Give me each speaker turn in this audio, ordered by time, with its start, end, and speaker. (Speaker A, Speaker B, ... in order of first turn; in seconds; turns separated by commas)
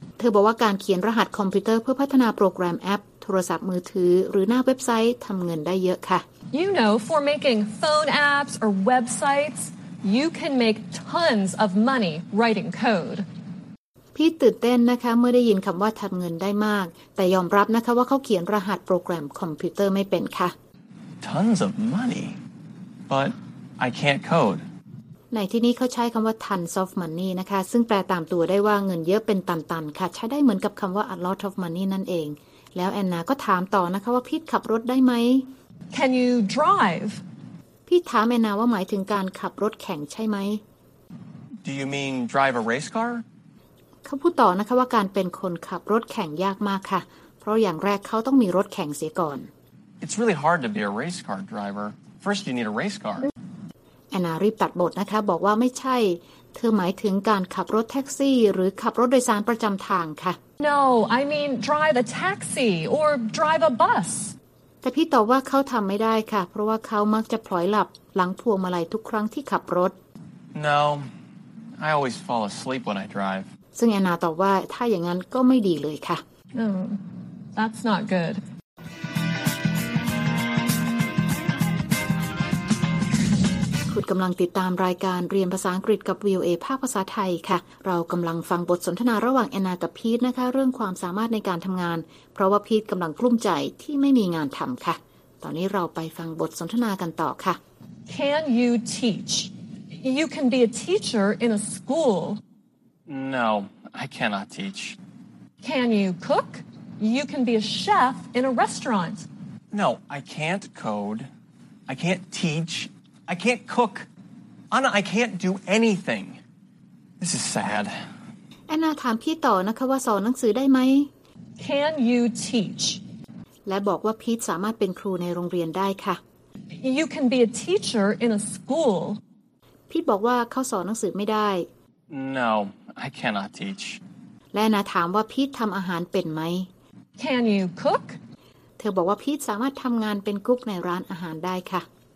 Speaker A: 0.2-6.2, Speaker B: 6.5-13.3, Speaker A: 14.2-20.5, Speaker C: 21.2-22.4, Speaker C: 23.1-24.6, Speaker A: 25.3-35.5, Speaker B: 35.9-37.2, Speaker A: 37.9-40.6, Speaker C: 41.6-43.2, Speaker A: 44.0-49.5, Speaker C: 50.0-53.3, Speaker A: 54.1-60.4, Speaker B: 60.6-64.3, Speaker A: 64.8-70.0, Speaker C: 70.5-71.1, Speaker C: 71.8-73.5, Speaker A: 73.8-76.2, Speaker B: 76.5-77.0, Speaker B: 77.5-78.4, Speaker A: 83.9-97.6, Speaker B: 98.1-102.4, Speaker C: 103.1-105.0, Speaker B: 105.6-109.3, Speaker C: 109.7-111.3, Speaker C: 111.9-114.1, Speaker C: 114.7-116.4, Speaker C: 117.2-118.0, Speaker A: 118.7-121.1, Speaker B: 121.6-123.0, Speaker A: 123.7-126.2, Speaker B: 126.7-129.2, Speaker A: 129.9-131.7, Speaker C: 132.1-134.0, Speaker A: 134.5-136.7, Speaker B: 137.2-138.2, Speaker A: 138.8-141.9